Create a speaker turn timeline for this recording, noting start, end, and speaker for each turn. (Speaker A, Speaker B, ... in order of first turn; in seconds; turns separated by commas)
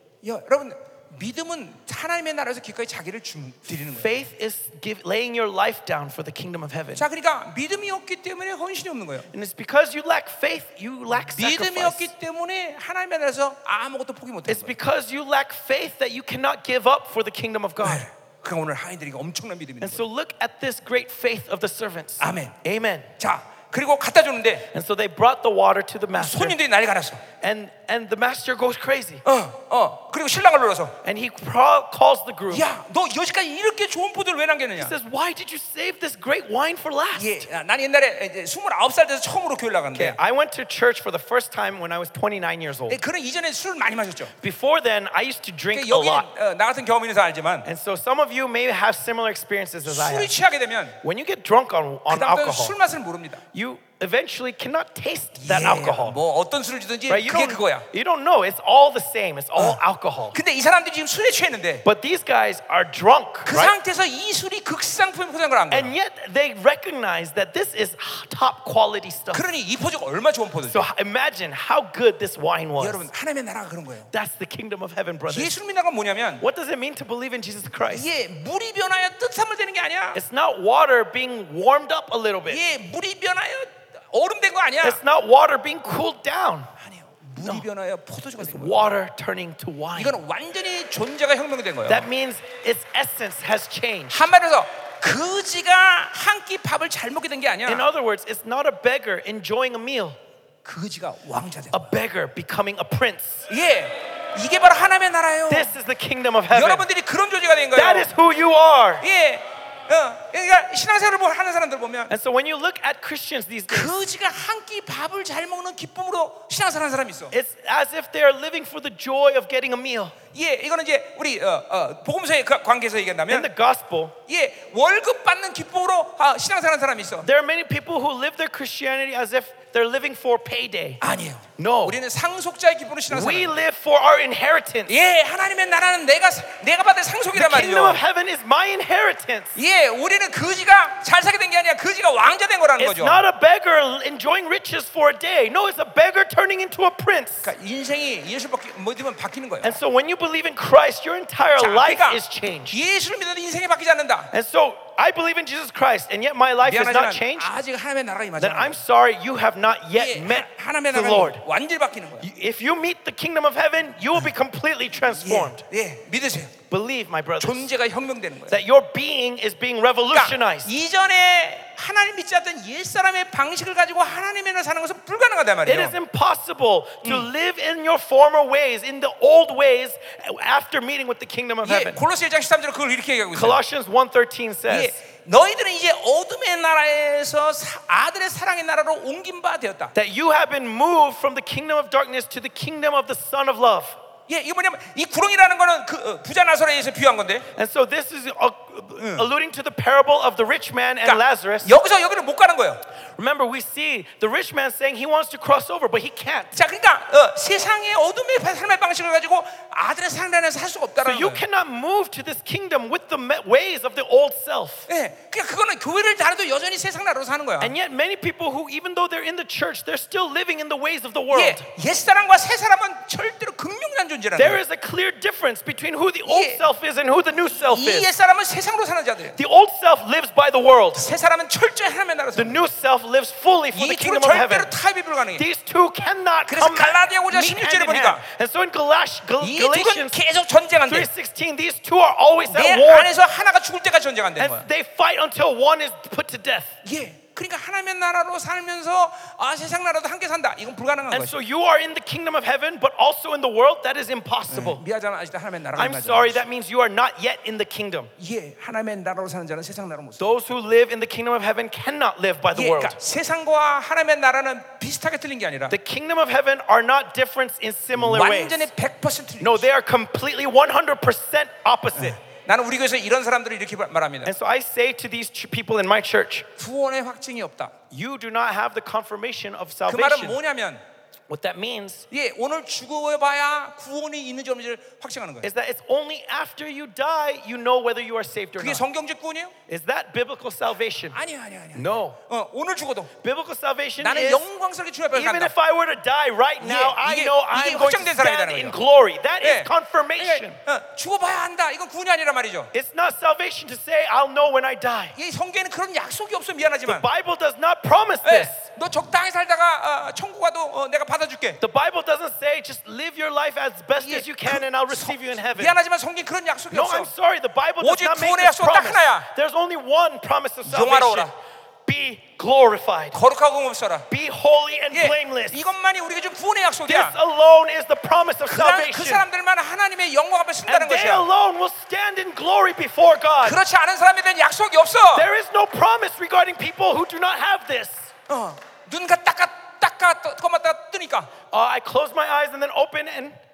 Speaker A: 0.2-4.1, Speaker B: 3.9-7.0, Speaker A: 6.9-9.3, Speaker B: 9.3-12.1, Speaker A: 11.3-14.7, Speaker B: 14.5-18.1, Speaker A: 17.8-20.0, Speaker B: 19.8-23.1, Speaker A: 22.2-22.5, Speaker A: 23.2-24.7, Speaker B: 24.7-26.6, Speaker A: 26.1-27.2, Speaker B: 27.4-29.2, Speaker A: 29.2-31.0, Speaker B: 31.0-32.7, Speaker A: 32.5-34.9, Speaker B: 34.8-37.5, Speaker A: 37.1-40.2, Speaker B: 39.9-43.0, Speaker A: 42.9-44.3, Speaker B: 44.4-46.3, Speaker A: 45.7-47.7, Speaker B: 47.6-50.3, Speaker A: 49.8-51.0, Speaker B: 51.0-52.8, Speaker A: 52.1-53.4, Speaker B: 53.5-56.2, Speaker A: 55.4-57.9, Speaker B: 57.1-60.4, Speaker A: 60.3-61.8, Speaker B: 61.8-63.7, Speaker A: 63.5-65.9, Speaker B: 65.7-69.4, Speaker A: 69.3-70.9, Speaker B: 70.7-73.1, Speaker A: 72.8-74.1, Speaker B: 74.1-75.5, Speaker A: 75.3-76.4, Speaker B: 76.4-78.1, Speaker A: 77.9-80.2, Speaker B: 80.1-82.6, Speaker A: 82.5-85.0, Speaker B: 84.8-86.7, Speaker A: 86.8-88.9, Speaker B: 87.4-87.7, Speaker B: 88.4-90.2, Speaker A: 89.9-92.1, Speaker B: 91.9-94.3, Speaker A: 94.1-97.8, Speaker B: 97.7-100.2, Speaker A: 100.6-101.8, Speaker B: 101.7-103.5, Speaker A: 103.5-105.7, Speaker B: 105.5-106.9, Speaker A: 106.5-108.1, Speaker B: 107.7-109.0, Speaker A: 109.0-112.1, Speaker B: 112.1-113.9, Speaker A: 113.7-117.3, Speaker B: 117.3-120.2, Speaker A: 120.3-123.5, Speaker B: 123.3-124.1, Speaker A: 124.3-127.3, Speaker B: 127.2-131.0, Speaker A: 131.0-133.5, Speaker B: 131.6-132.0, Speaker B: 133.1-134.9, Speaker A: 134.9-138.0, Speaker B: 137.3-139.5, Speaker A: 139.5-143.2, Speaker B: 142.8-147.5, Speaker A: 147.4-149.8, Speaker B: 149.6-152.8, Speaker A: 151.6-154.3, Speaker B: 154.3-157.5, Speaker A: 156.6-158.8, Speaker B: 158.4-161.4, Speaker A: 159.9-162.3, Speaker B: 162.2-165.6, Speaker A: 165.1-166.5, Speaker B: 166.7-167.7, Speaker A: 167.4-168.6, Speaker B: 168.5-170.7, Speaker A: 170.1-175.9, Speaker B: 175.6-182.0, Speaker A: 181.6-183.6, Speaker B: 183.3-185.0, Speaker A: 184.7-189.9, Speaker B: 189.9-194.0, Speaker A: 194.3-197.5, Speaker B: 197.5-201.8, Speaker A: 199.0-199.3, Speaker A: 201.0-202.8, Speaker B: 203.2-206.6, Speaker A: 206.5-211.4, Speaker B: 211.0-214.9, Speaker A: 214.9-217.7, Speaker B: 217.6-221.7, Speaker A: 221.3-224.6, Speaker B: 224.3-228.1, Speaker A: 226.2-226.6, Speaker A: 227.6-229.4, Speaker B: 229.3-231.1, Speaker A: 230.9-232.6, Speaker B: 232.3-234.7, Speaker A: 233.7-235.4, Speaker B: 235.3-240.2, Speaker A: 236.5-238.2, Speaker A: 239.4-241.1, Speaker B: 240.8-243.1, Speaker A: 242.5-244.7, Speaker B: 244.4-246.8, Speaker A: 246.8-251.3, Speaker B: 251.1-254.8, Speaker A: 254.5-256.4, Speaker B: 255.8-258.1, Speaker A: 258.2-260.3, Speaker B: 260.2-263.0, Speaker A: 262.5-265.8, Speaker B: 265.7-268.7, Speaker A: 268.0-269.7, Speaker B: 269.4-272.2, Speaker A: 271.9-274.3, Speaker B: 274.2-276.5, Speaker A: 276.6-277.7, Speaker B: 277.9-280.4, Speaker A: 279.9-280.8, Speaker B: 281.3-282.1, Speaker A: 282.1-285.5, Speaker B: 285.4-288.8, Speaker A: 288.6-289.5, Speaker B: 289.7-291.2, Speaker A: 291.1-293.1, Speaker B: 291.7-292.2, Speaker B: 293.2-294.5, Speaker A: 294.0-295.5, Speaker B: 295.1-300.6, Speaker A: 296.6-298.8, Speaker A: 299.4-302.7, Speaker B: 302.7-305.1, Speaker A: 305.1-307.1, Speaker B: 306.9-308.6, Speaker A: 308.2-311.6, Speaker B: 311.6-315.7, Speaker A: 314.0-317.1, Speaker B: 316.7-321.3, Speaker A: 317.8-319.3, Speaker A: 320.6-321.3, Speaker B: 321.9-323.2, Speaker A: 323.1-324.1, Speaker B: 324.1-325.6, Speaker A: 324.9-327.1, Speaker B: 326.9-329.2, Speaker A: 328.5-331.3, Speaker B: 330.7-333.6, Speaker A: 333.4-335.3, Speaker B: 335.1-338.1, Speaker A: 338.3-341.3, Speaker B: 341.5-343.3